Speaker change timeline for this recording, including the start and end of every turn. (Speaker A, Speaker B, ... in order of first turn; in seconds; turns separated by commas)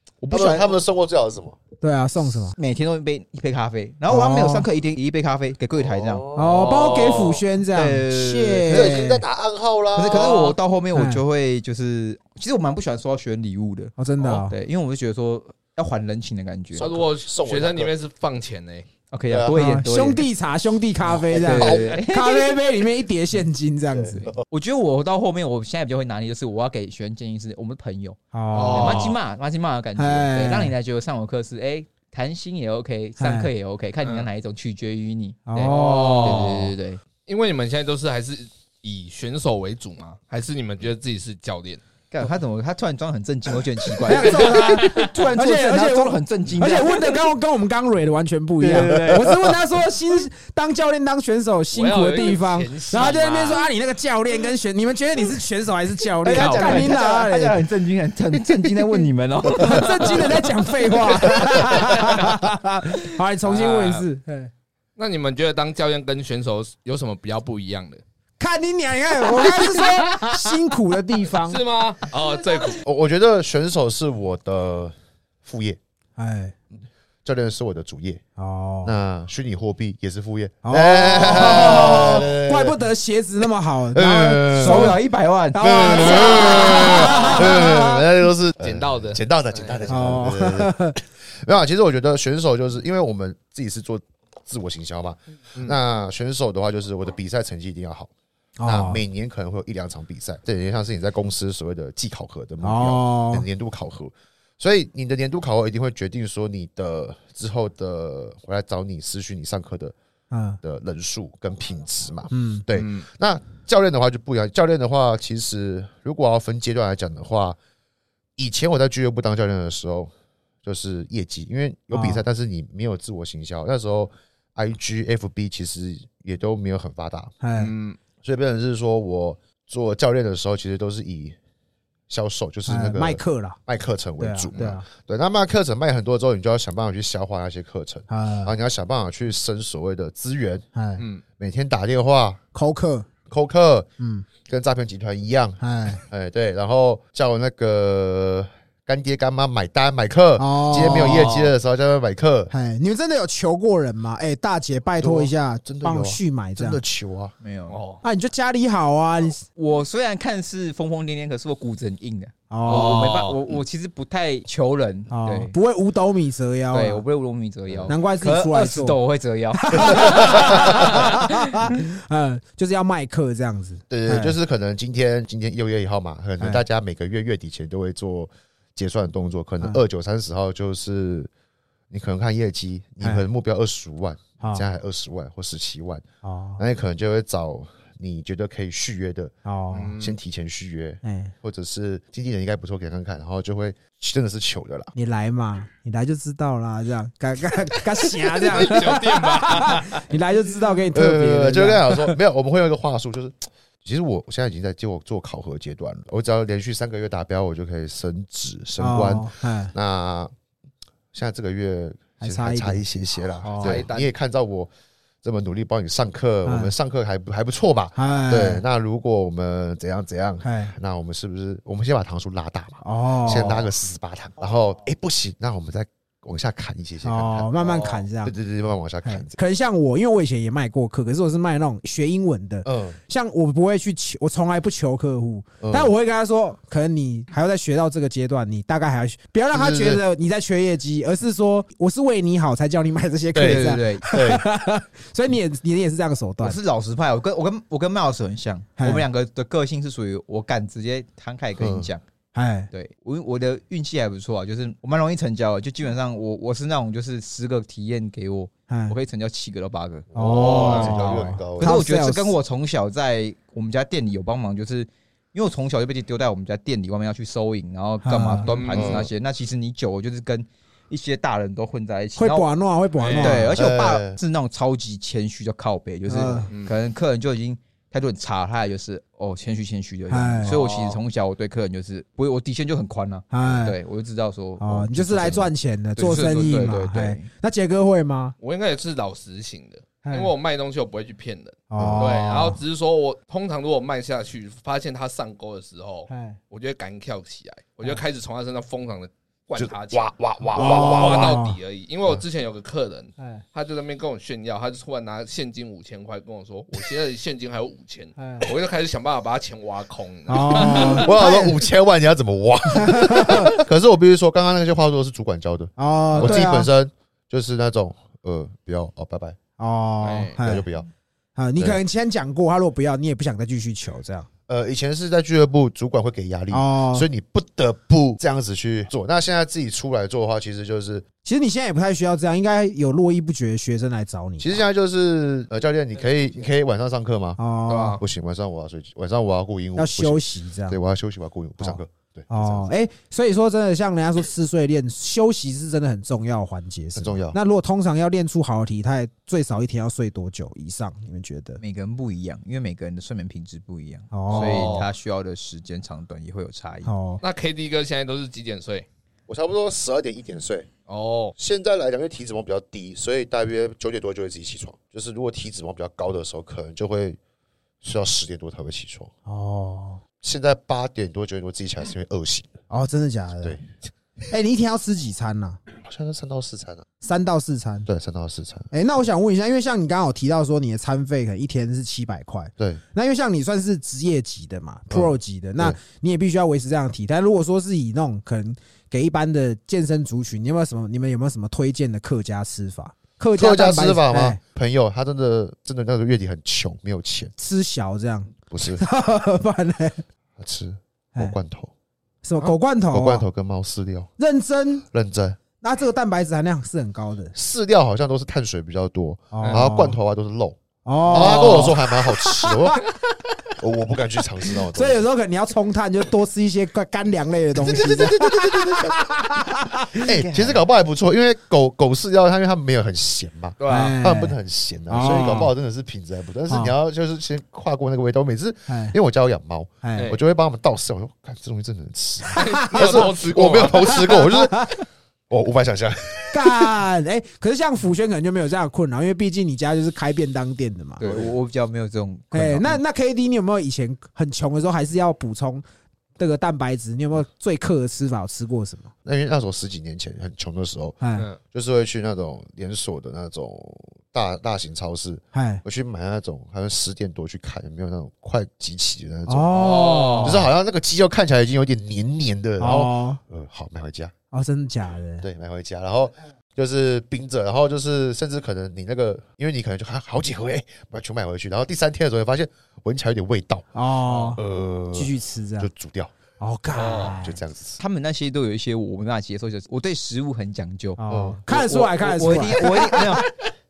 Speaker A: 0.2-0.7, Speaker B: 0.3-1.6, Speaker C: 1.8-2.6, Speaker A: 2.5-6.2, Speaker C: 4.1-4.7, Speaker B: 5.8-6.7, Speaker C: 6.3-9.2, Speaker D: 6.5-7.4, Speaker A: 7.7-9.0, Speaker B: 8.7-10.4, Speaker A: 9.9-16.9, Speaker D: 10.1-10.6, Speaker C: 10.9-11.2, Speaker C: 14.0-14.6, Speaker B: 16.8-17.9, Speaker D: 16.8-18.9, Speaker A: 19.1-20.2, Speaker B: 19.3-19.6, Speaker C: 19.5-24.2, Speaker B: 21.1-22.0, Speaker A: 21.3-22.8, Speaker B: 23.9-24.4, Speaker A: 24.4-37.0, Speaker C: 28.3-29.1, Speaker D: 28.5-29.2, Speaker C: 30.0-30.7, Speaker C: 33.2-33.5, Speaker C: 35.5-36.5, Speaker D: 35.6-36.8, Speaker D: 37.3-41.8, Speaker A: 42.1-47.2, Speaker C: 44.0-57.6, Speaker D: 44.1-45.1, Speaker A: 48.6-49.3, Speaker D: 51.7-53.7, Speaker A: 56.2-60.5, Speaker D: 56.3-57.0, Speaker C: 58.5-64.5, Speaker A: 61.0-61.3, Speaker D: 61.1-62.4, Speaker D: 63.4-64.1, Speaker D: 65.0-68.0, Speaker C: 68.4-71.6, Speaker D: 69.4-70.3, Speaker D: 71.4-72.8, Speaker B: 72.8-75.8, Speaker C: 76.2-76.5, Speaker B: 77.2-78.2, Speaker C: 78.4-79.0, Speaker B: 78.8-82.8, Speaker C: 80.6-85.0, Speaker B: 83.9-85.0, Speaker A: 84.5-86.9, Speaker C: 85.5-88.1, Speaker B: 85.6-98.1, Speaker D: 86.9-87.5, Speaker D: 88.6-89.8, Speaker C: 89.9-91.0, Speaker C: 98.6-99.0, Speaker B: 98.7-109.9, Speaker C: 102.6-103.5, Speaker C: 110.3-110.6, Speaker B: 110.6-117.6, Speaker C: 112.3-112.7, Speaker D: 112.7-113.1, Speaker B: 118.4-120.1, Speaker B: 120.6-127.4, Speaker C: 121.9-122.2, Speaker C: 127.4-127.7, Speaker D: 127.6-128.0, Speaker B: 128.2-131.4, Speaker B: 132.1-140.7, Speaker C: 132.7-133.6, Speaker C: 134.2-134.8, Speaker C: 138.1-138.5, Speaker C: 140.8-141.1, Speaker D: 141.0-141.2, Speaker B: 141.4-142.4, Speaker C: 142.5-143.1, Speaker B: 143.3-143.9, Speaker C: 144.0-144.2, Speaker B: 144.4-152.5, Speaker C: 145.6-146.0, Speaker C: 150.4-151.4, Speaker D: 151.0-151.5, Speaker C: 152.5-156.8, Speaker B: 155.0-157.3, Speaker A: 157.4-157.8, Speaker D: 157.7-158.0, Speaker C: 158.0-159.4, Speaker A: 159.6-165.6, Speaker C: 162.5-163.0, Speaker D: 162.7-163.5, Speaker C: 165.1-167.0, Speaker A: 166.7-171.7, Speaker C: 167.9-169.0, Speaker C: 169.6-174.4, Speaker B: 169.9-171.0, Speaker B: 173.9-181.3, Speaker B: 181.9-186.0, Speaker C: 186.2-186.6, Speaker B: 186.6-189.3, Speaker C: 189.4-190.0, Speaker D: 189.7-190.2, Speaker B: 190.0-194.9, Speaker C: 191.0-191.3, Speaker C: 194.9-202.2, Speaker D: 198.5-200.0, Speaker B: 200.9-210.3, Speaker C: 208.8-209.7, Speaker B: 211.1-214.7, Speaker C: 212.2-212.8, Speaker C: 213.4-213.8, Speaker D: 213.6-214.1, Speaker B: 215.2-229.4, Speaker C: 216.4-216.7, Speaker C: 217.9-218.6, Speaker C: 220.4-220.7, Speaker C: 222.8-223.7, Speaker C: 227.0-228.3, Speaker C: 229.1-246.6, Speaker B: 232.7-233.0, Speaker B: 235.6-235.9, Speaker B: 239.5-240.0, Speaker B: 243.3-244.4, Speaker A: 243.4-244.1, Speaker A: 246.4-252.0, Speaker C: 248.8-249.1, Speaker B: 251.6-251.9, Speaker C: 252.3-252.7, Speaker A: 252.7-260.1, Speaker C: 258.7-259.0, Speaker B: 260.1-261.8, Speaker C: 260.1-262.4, Speaker D: 260.2-261.2, Speaker A: 260.6-272.5, Speaker C: 268.0-268.5, Speaker D: 268.5-269.1, Speaker B: 268.7-269.1, Speaker C: 272.2-273.6, Speaker D: 273.0-273.4, Speaker A: 273.1-287.3, Speaker B: 273.6-274.2, Speaker C: 276.1-276.5, Speaker D: 276.5-276.8, Speaker C: 280.1-280.6, Speaker D: 280.5-281.0, Speaker C: 283.3-283.8, Speaker C: 284.6-288.4, Speaker D: 288.4-311.1, Speaker C: 290.0-290.3, Speaker C: 291.7-292.6, Speaker B: 291.8-292.1, Speaker C: 296.1-296.4, Speaker B: 299.6-301.4, Speaker C: 300.6-301.6, Speaker C: 303.2-303.4, Speaker C: 308.2-308.5, Speaker C: 310.3-311.6, Speaker B: 310.6-319.4, Speaker C: 312.7-313.5, Speaker C: 315.8-316.7, Speaker D: 316.2-316.4, Speaker C: 319.6-320.6, Speaker D: 320.0-320.4, Speaker B: 320.4-320.9, Speaker C: 321.4-324.3, Speaker B: 324.5-331.1, Speaker C: 326.5-327.1, Speaker C: 331.2-334.6, Speaker B: 334.4-337.4, Speaker C: 337.4-338.0, Speaker D: 337.7-338.0, Speaker B: 338.0-342.7, Speaker C: 339.8-340.8, Speaker C: 341.6-351.6, Speaker B: 346.9-347.4, Speaker A: 351.6-356.9, Speaker C: 354.1-354.8, Speaker D: 354.3-354.9, Speaker C: 356.9-357.2, Speaker D: 357.2-358.9, Speaker B: 359.3-360.7, Speaker D: 360.9-361.4, Speaker B: 361.4-367.2, Speaker B: 367.8-369.1, Speaker C: 369.3-370.0, Speaker B: 370.2-372.5, Speaker C: 372.7-373.6, Speaker B: 373.4-373.8, Speaker C: 374.3-375.6, Speaker B: 375.8-376.9, Speaker C: 377.0-377.9, Speaker B: 377.9-378.7, Speaker C: 378.7-394.4, Speaker B: 384.9-385.8, Speaker B: 393.4-397.3, Speaker C: 397.4-400.1, Speaker B: 398.5-398.9, Speaker B: 400.4-401.7, Speaker C: 402.2-403.2, Speaker B: 402.9-404.1, Speaker C: 404.2-404.9, Speaker B: 404.9-405.4, Speaker C: 405.6-407.4, Speaker B: 407.3-412.8, Speaker C: 409.3-410.0, Speaker C: 410.9-412.8, Speaker D: 411.1-411.7, Speaker B: 413.6-415.0, Speaker C: 414.7-420.1, Speaker B: 417.6-419.0, Speaker B: 420.0-436.8, Speaker A: 420.1-420.6, Speaker D: 423.6-424.0, Speaker C: 423.7-424.4, Speaker C: 424.9-425.5, Speaker C: 426.5-426.7, Speaker C: 428.7-429.0, Speaker C: 429.8-430.1, Speaker C: 432.3-433.1, Speaker D: 432.4-434.1, Speaker C: 433.8-434.8, Speaker C: 436.3-441.0, Speaker A: 441.0-442.8, Speaker C: 442.3-445.6, Speaker C: 446.2-448.9, Speaker B: 449.1-464.1, Speaker C: 451.0-451.3, Speaker C: 455.3-455.6, Speaker C: 459.3-460.4, Speaker D: 459.5-460.4, Speaker C: 462.6-463.2, Speaker C: 464.3-465.3, Speaker B: 465.2-476.1, Speaker C: 473.7-474.4, Speaker C: 474.9-475.7, Speaker C: 476.4-477.4, Speaker D: 476.7-477.2, Speaker B: 477.2-477.8, Speaker A: 477.8-483.2, Speaker C: 481.0-483.2, Speaker B: 481.1-481.4